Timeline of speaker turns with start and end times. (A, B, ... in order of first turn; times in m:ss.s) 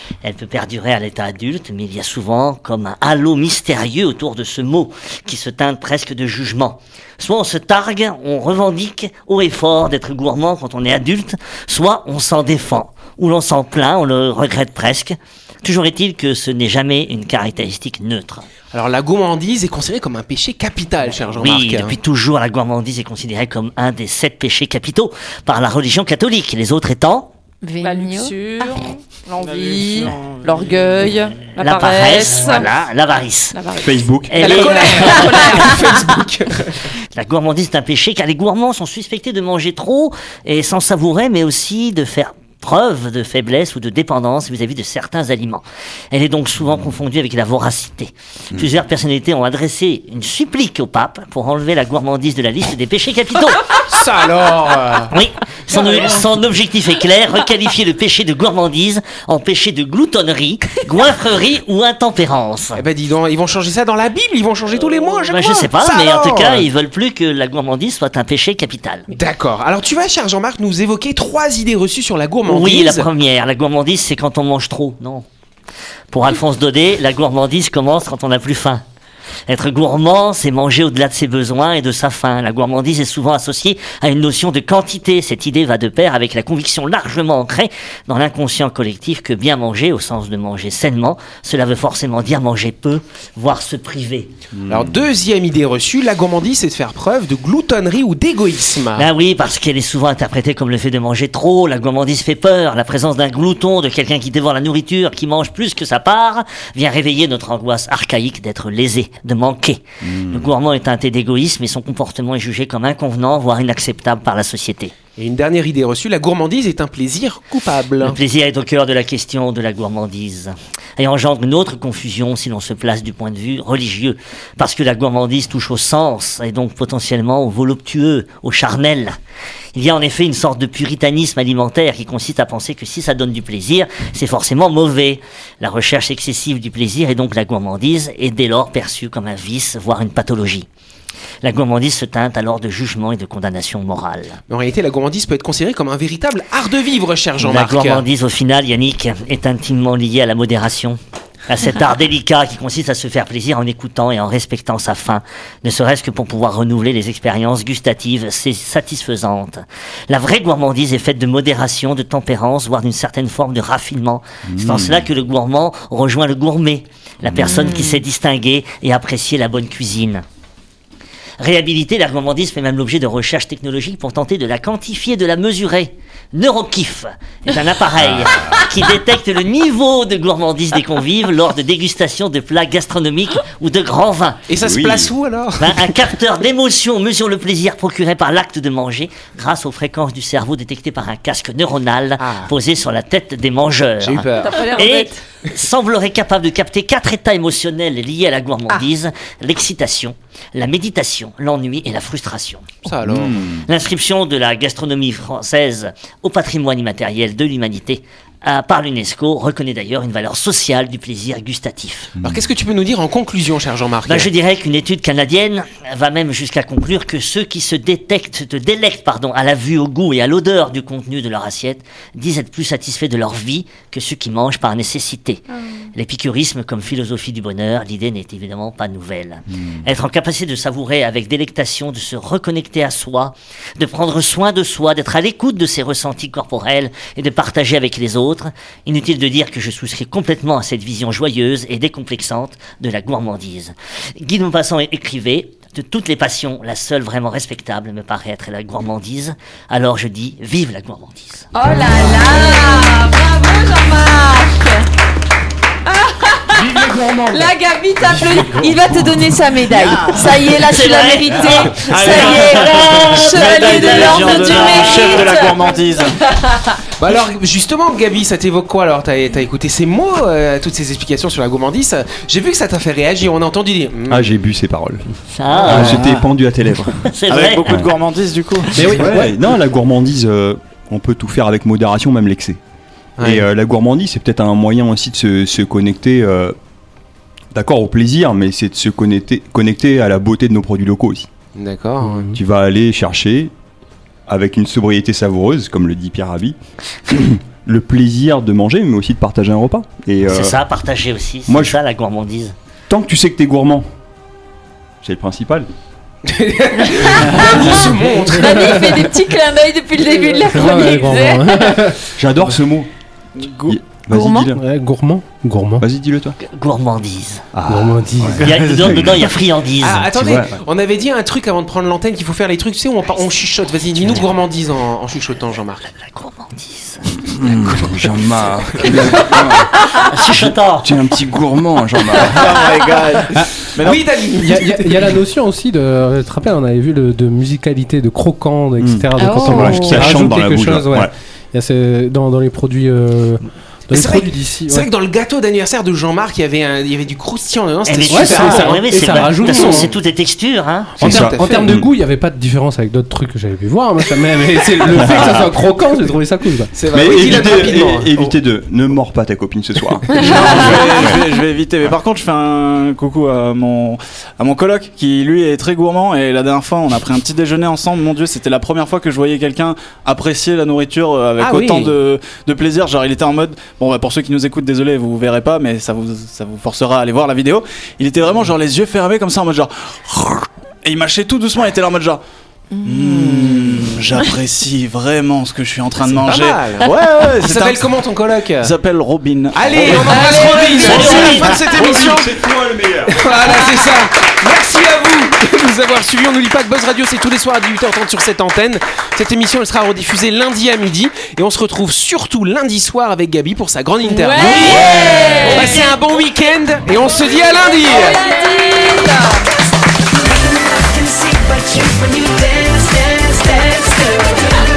0:00.2-0:18.4 A
0:18.7-0:22.0 B
0:21.3-0:27.3 A
0:27.6-0:28.4 C
0:27.8-0:32.7 D
0:29.4-0:31.1 E
0:31.6-0:33.6 A
0:33.5-0:35.6 D
0:33.8-0:34.3 F
0:34.3-0:35.8 A
0:34.4-0:36.9 B
0:34.5-0:35.7 C
0:37.1-0:53.7 A
0:53.8-0:55.1 B
0:55.1-1:02.8 A
0:55.8-0:56.2 B
1:02.8-1:06.7 B
1:05.3-1:09.1 A
1:09.1-1:13.0 B
1:12.5-1:15.2 A
1:16.1-1:18.8 A
1:19.5-1:34.3 A
1:34.6-1:35.0 F
1:34.7-1:39.1 B
1:38.9-1:54.9 A
1:50.0-1:50.5 F
1:55.2-1:58.2 B
1:58.0-2:09.2 A
2:09.7-2:20.7 A
2:21.4-2:24.4 A
2:24.5-2:28.0 B
2:27.4-2:50.2 A
2:44.4-2:45.1 F
2:47.2-2:47.6 F
2:47.4-2:48.0 C
2:51.4-3:04.4 A
2:58.0-2:58.6 F
3:04.5-3:06.0 B
3:04.6-3:05.1 F
3:05.6-3:22.7 A
3:12.2-3:12.5 B
3:14.0-3:14.6 B
3:14.4-3:15.2 D
3:22.8-3:23.5 B
3:23.0-3:23.7 F
3:23.6-3:32.1 A
3:32.2-3:32.4 F
3:32.2-3:34.3 B
3:34.0-3:45.4 A
3:45.9-4:11.5 A
4:11.5-4:14.8 C
4:15.9-4:25.8 C
4:16.5-4:17.5 G
4:18.4-4:18.8 E
4:19.6-4:20.7 E
4:20.4-4:25.3 A
4:21.3-4:26.2 E
4:26.4-4:26.8 C
4:27.0-4:34.3 B
4:34.1-4:37.1 F
4:35.3-4:36.0 A
4:35.6-4:36.3 E
4:37.1-4:37.8 A
4:37.3-4:39.2 E
4:38.7-4:39.3 G
4:38.8-4:42.6 F
4:43.2-4:43.4 B
4:43.2-4:46.6 F
4:47.5-4:51.3 F
4:51.6-4:52.3 B
4:52.3-4:53.5 F
4:54.3-4:56.6 F
4:57.1-5:00.6 F
5:00.3-5:02.5 A
5:01.5-5:01.8 F
5:02.9-5:03.9 F
5:05.0-5:05.7 F
5:06.2-5:09.1 B
5:07.5-5:11.9 C
5:08.5-5:08.8 G
5:10.4-5:12.0 G
5:12.2-5:12.9 F
5:13.4-5:13.8 E
5:13.6-5:14.6 F
5:14.1-5:14.6 C
5:14.5-5:15.8 G
5:15.8-5:16.4 F
5:16.4-5:17.4 A
5:17.5-5:19.3 F
5:17.7-5:18.5 G
5:18.4-5:20.1 A
5:18.4-5:19.2 E
5:19.8-5:25.9 B
5:20.1-5:20.6 F
5:25.9-5:27.1 A
5:27.2-5:29.7 F
5:30.0-5:30.9 A
5:30.3-5:32.6 F
5:32.2-5:34.1 E
5:33.3-5:33.6 G
5:33.8-5:35.1 B
5:34.4-5:44.9 G
5:38.8-5:41.1 F
5:39.1-5:40.3 C
5:43.9-5:49.9 B
5:47.8-5:51.1 A
5:48.1-5:49.9 G
5:51.0-5:51.9 F
5:51.0-5:56.7 G
5:51.0-5:51.8 B
5:54.9-5:55.5 F
5:56.7-5:58.1 B
5:56.9-6:01.2 F
5:57.2-5:57.6 G
6:00.1-6:00.6 C
6:00.2-6:22.2 E
6:11.4-6:11.9 B
6:22.8-6:23.4 C
6:22.8-6:27.9 E
6:26.0-6:28.7 B
6:28.6-6:30.5 E
6:29.5-6:32.4 B
6:30.1-6:31.2 C
6:30.5-6:31.6 A
6:31.0-6:33.2 F
6:31.0-6:31.4 E
6:33.1-6:48.2 B
6:44.0-6:45.8 C
6:44.6-6:45.5 A
6:47.6-6:49.1 D
6:47.7-6:49.2 C
6:53.3-6:54.3 C